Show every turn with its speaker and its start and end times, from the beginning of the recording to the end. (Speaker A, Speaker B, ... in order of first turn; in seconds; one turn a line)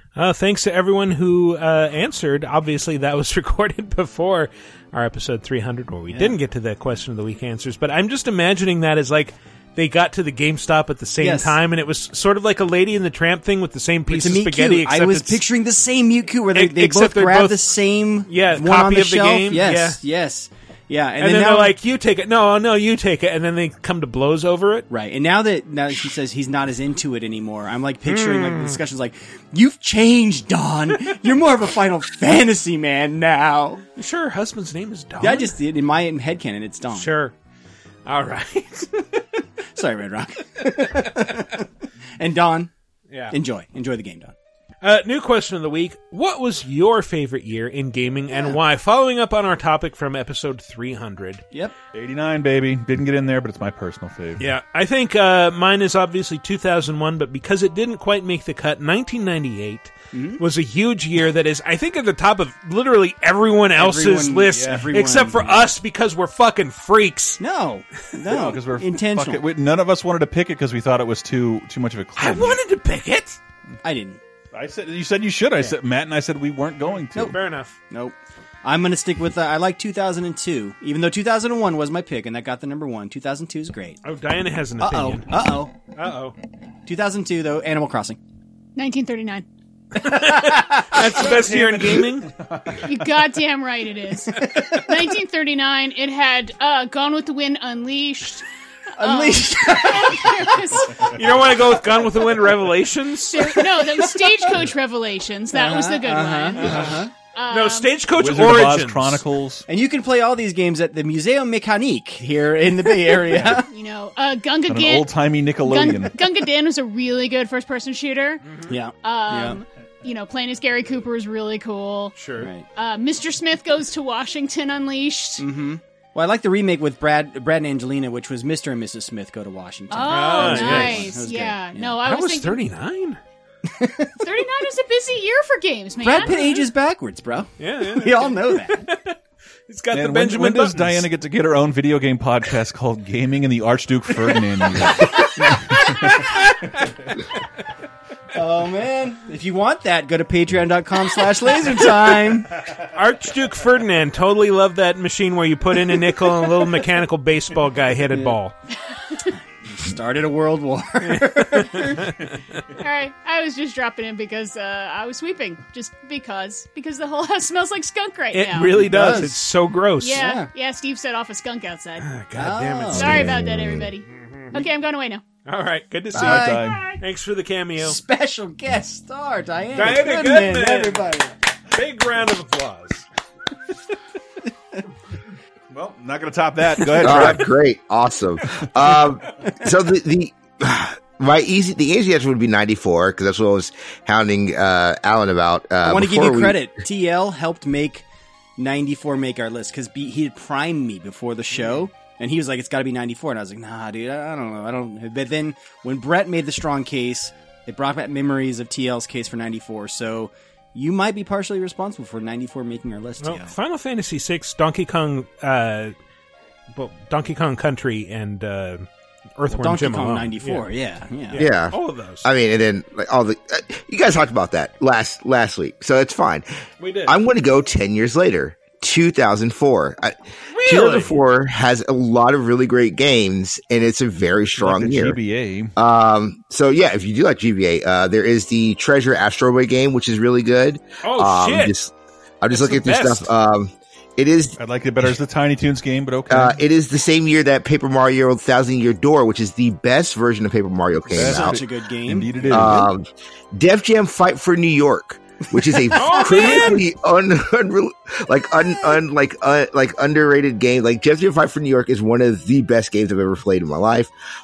Speaker A: 0.1-15.4
Speaker B: 6.1-6.3
Speaker B: 11.2-11.6
Speaker B: 14.1-21.7
Speaker A: 16.5-17.7
Speaker A: 18.3-20.0
Speaker A: 21.2-24.9
Speaker B: 24.9-33.8
Speaker A: 28.1-28.8
Speaker A: 34.0-35.5
Speaker B: 35.2-37.1
Speaker A: 36.9-37.3
Speaker A: 38.0-38.9
Speaker B: 39.7-41.6
Speaker B: 42.2-42.7
Speaker B: 43.3-44.3
Speaker A: 44.8-51.4
Speaker B: 48.3-48.6
Speaker C: 51.9-54.4
Speaker A: 54.4-67.4
Speaker B: 60.1-60.4
Speaker B: 63.8-65.7
Speaker B: 67.4-69.4
Speaker C: 68.3-72.6
Speaker A: 72.2-73.4
Speaker B: 73.8-74.2
Speaker C: 74.5-77.3
Speaker A: 77.2-77.8
Speaker B: 77.9-84.0
Speaker A: 84.0-85.3
Speaker B: 84.8-85.7
Speaker A: 85.9-86.3
Speaker B: 86.8-88.2
Speaker D: 88.8-89.5
Speaker B: 90.0-91.5
Speaker A: 90.0-92.3
Speaker C: 91.2-93.0
Speaker D: 92.8-98.4
Speaker B: 99.0-100.8
Speaker D: 99.0-100.8
Speaker A: 101.1-103.6
Speaker D: 103.3-106.6
Speaker B: 103.4-104.5
Speaker B: 105.5-107.1
Speaker D: 107.3-107.9
Speaker A: 107.5-109.2
Speaker C: 108.2-109.7
Speaker B: 109.7-113.7
Speaker D: 113.7-115.1
Speaker C: 114.7-116.2
Speaker D: 115.6-118.4
Speaker A: 118.4-118.7
Speaker B: 118.7-119.6
Speaker D: 119.0-122.1
Speaker A: 122.2-122.5
Speaker B: 122.4-122.7
Speaker D: 122.7-125.4
Speaker B: 125.4-131.9
Speaker D: 129.9-132.6
Speaker A: 130.1-131.2
Speaker A: 132.0-133.2
Speaker B: 133.7-134.4
Speaker D: 134.2-136.7
Speaker B: 136.0-138.9
Speaker A: 137.6-139.2
Speaker A: 139.7-141.1
Speaker C: 139.9-145.2
Speaker C: 145.9-146.1
Speaker B: 148.3-152.5
Speaker A: 152.9-158.5
Speaker B: 158.1-158.3
Speaker B: 159.3-162.0
Speaker D: 162.8-168.7
Speaker A: 168.3-170.2
Speaker B: 168.7-169.4
Speaker D: 170.0-172.1
Speaker B: 170.1-170.5
Speaker A: 172.0-173.5
Speaker B: 172.3-173.4
Speaker D: 172.9-175.2
Speaker A: 174.1-174.5
Speaker A: 175.4-178.0
Speaker B: 176.1-176.8
Speaker C: 176.2-176.8
Speaker B: 177.8-181.3
Speaker A: 179.7-181.1
Speaker A: 181.7-183.0
Speaker C: 185.7-187.4
Speaker E: 187.0-196.7
Speaker B: 195.8-198.0
Speaker B: 198.6-213.5
Speaker A: 213.2-215.9
Speaker A: 216.7-220.7
Speaker B: 219.5-221.4
Speaker A: 221.3-222.3
Speaker E: 221.4-226.5
Speaker A: 226.8-227.1
Speaker E: 227.1-235.2
Speaker A: 230.5-231.2
Speaker C: 234.5-235.7
Speaker E: 235.8-244.6
Speaker A: 241.0-241.7
Speaker A: 242.5-243.3
Speaker C: 244.6-246.6
Speaker E: 246.3-251.6
Speaker C: 251.1-252.9
Speaker B: 251.1-252.7
Speaker E: 252.5-264.1
Speaker B: 255.7-256.6
Speaker A: 255.9-256.8